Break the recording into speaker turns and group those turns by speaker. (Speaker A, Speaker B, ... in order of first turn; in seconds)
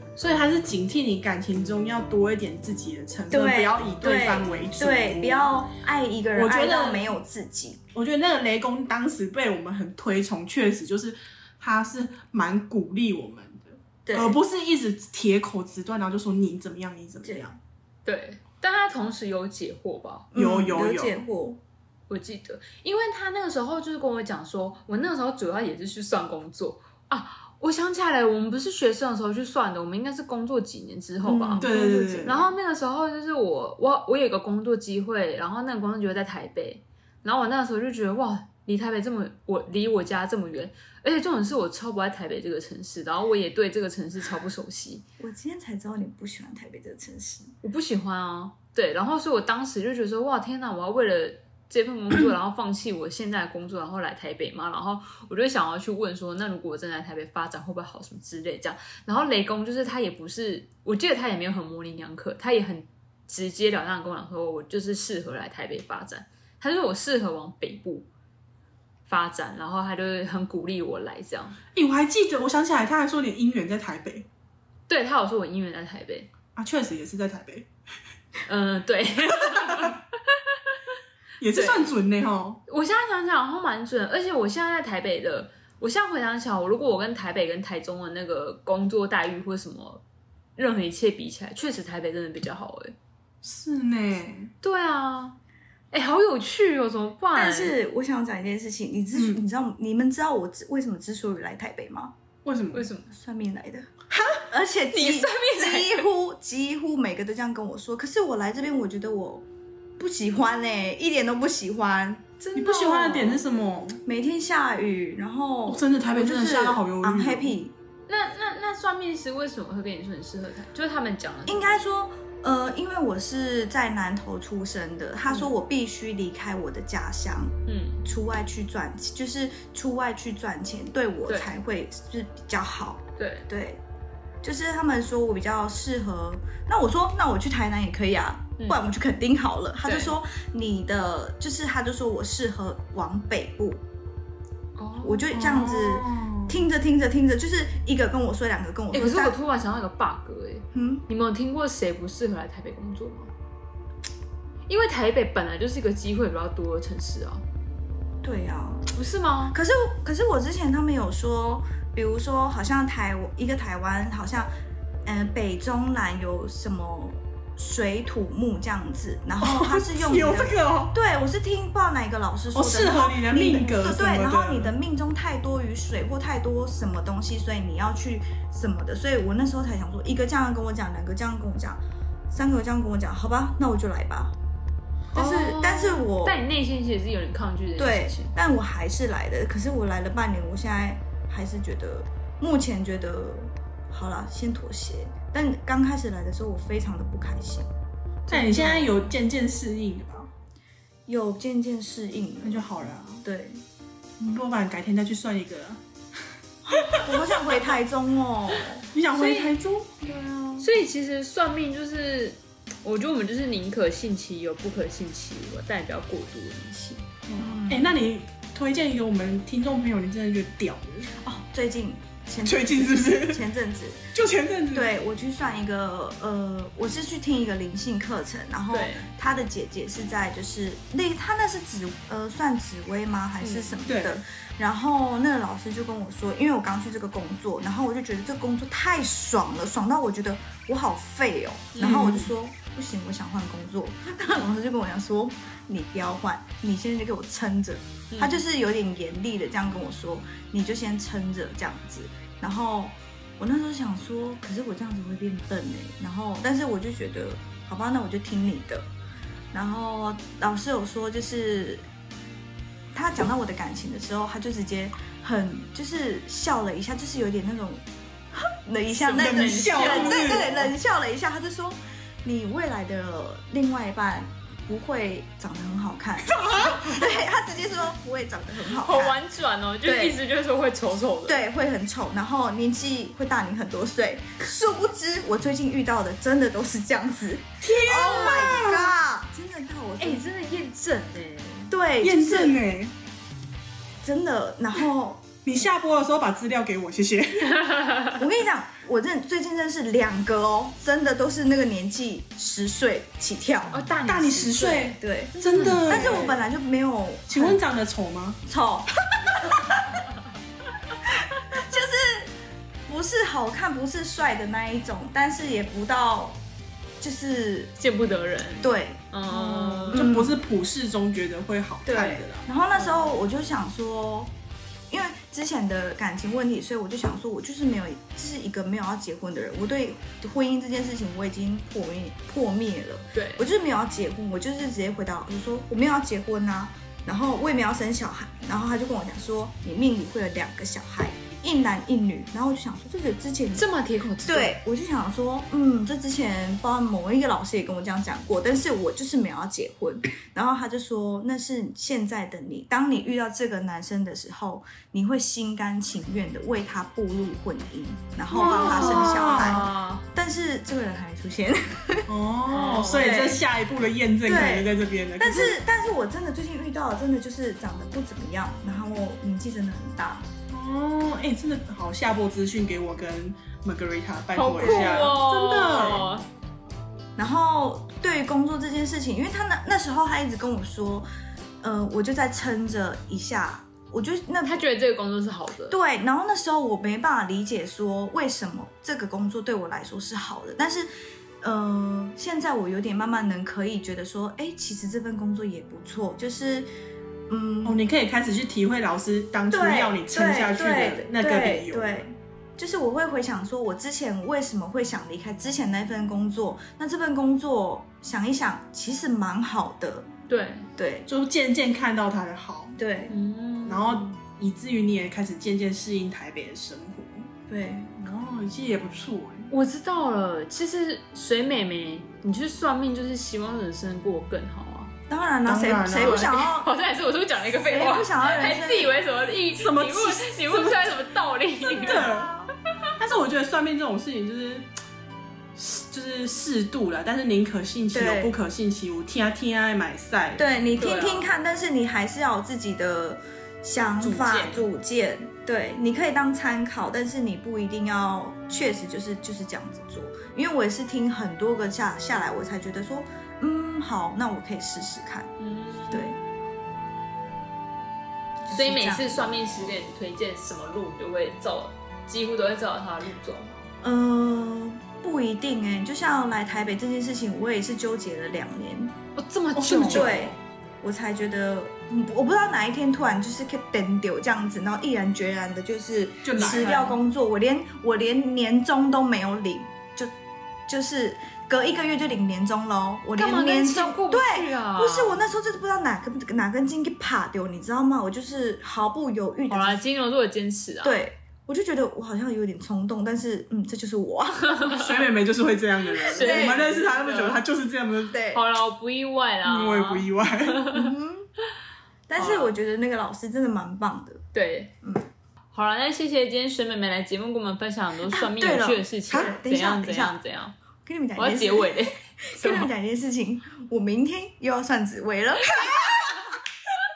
Speaker A: 0.2-5.5, 6.3-7.1, 7.9-17.6, 20.3-21.1, 31.6-32.4, 71.7-74.2, 76.5-77.7, 81.4-82.6, 93.4-94.5, 99.1-99.4, 102.4-102.9, 112.5-114.0, 115.7-117.5, 145.3-146.6, 169.4-170.9, 172.5-174.7, 198.3-200.3, 202.4-203.2, 204.2-205.8, 206.7-207.7, 208.9-210.7, 217.3-221.1, 222.4-223.4, 224.1-224.9, 233.8-234.2, 241.8-242.3, 269.1-270.7, 276.3-277.0, 287.6-288.9, 292.0-292.9, 295.4-297.7, 304.1-306.3, 307.3-308.4, 319.3-322.4, 358.3-359.6, 362.1-365.6, 370.5-376.1, 397.6-401.8, 411.1-412.8, 413.6-417.3, 418.0-419.5, 425.4-426.5, 429.5-431.0, 431.8-432.3, 433.0-434.7, 435.6-440.4, 469.5-470.3, 476.2-476.8, 494.7-498.2, 499.4-500.7
Speaker B: 3.3-7.8, 14.1-14.4, 20.3-21.6, 31.2-32.4, 45.2-47.5, 97.3-102.1, 103.1-109.4, 110.0-112.3, 114.0-117.7, 121.5-133.8, 134.4-143.8, 145.0-149.3, 150.7-151.0, 158.2-158.9, 159.5-164.5, 165.0-184.3, 185.1-186.4, 187.8-197.7, 198.3-199.1, 201.1-202.7, 203.2-203.6, 206.7-208.8, 217.4-218.0, 221.2-224.1, 224.7-258.9, 259.5-261.8, 262.9-279.2, 279.8-280.2, 281.3-290.2, 291.7-292.6, 294.0-295.2, 298.1-303.8, 304.9-305.3, 305.9-307.6, 308.4-310.0, 311.1-312.3, 312.9-316.4, 317.0-317.7, 318.6-319.0, 319.9-320.3, 321.9-324.3, 324.9-343.7, 344.2-362.1, 362.9-363.4, 364.2-370.3, 374.6-375.1, 377.1-381.1, 381.6-384.6, 385.7-390.9, 391.4-396.7, 397.3-397.8, 399.5-410.1, 410.8-411.1, 412.8-413.1, 417.5-418.0, 425.1-426.7, 427.5-428.9, 431.7-432.5, 437.9-438.4, 440.4-455.3, 455.9-456.2, 458.4-459.5, 463.8-468.9, 469.8-480.1, 480.7-489.8, 490.8-494.6, 496.0-496.7, 498.1-498.4, 500.7-501.3, 502.1-504.2, 508.0-510.2, 510.8-516.3
Speaker C: 18.0-20.3, 22.1-31.7, 32.2-45.0, 47.6-68.1, 69.1-71.6, 74.9-76.3, 78.5-80.5, 81.5-81.9, 82.7-90.0, 90.6-93.0, 94.6-95.4, 95.9-97.8, 102.7-103.1, 104.9-106.1, 112.4-113.4, 118.1-121.8, 127.7-128.0, 131.3-131.5, 133.2-133.5, 139.8-140.1, 144.8-145.4, 148.9-153.3, 154.7-157.4, 158.9-159.6, 185.1-188.3, 209.1-209.5, 210.6-217.1, 228.7-229.1, 233.4-233.7, 241.7-242.2, 248.1-248.4, 268.9-270.6, 278.8-281.4, 290.0-291.7, 303.7-306.4, 317.8-320.0, 321.9-323.1, 333.1-333.4, 343.6-344.5, 358.3-360.0, 362.5-363.3, 374.3-376.2, 384.4-385.8, 410.3-410.7, 413.1-414.1, 419.5-424.9, 426.0-432.1, 440.8-441.3, 444.0-444.6, 455.4-456.1, 458.5-463.5, 469.1-470.3, 476.4-477.0, 483.2-485.2, 489.5-491.0, 494.5-494.9, 496.0-497.4, 498.3-500.9, 502.2-502.5, 504.3-504.7, 505.5-510.5, 511.2-512.7, 515.5-516.3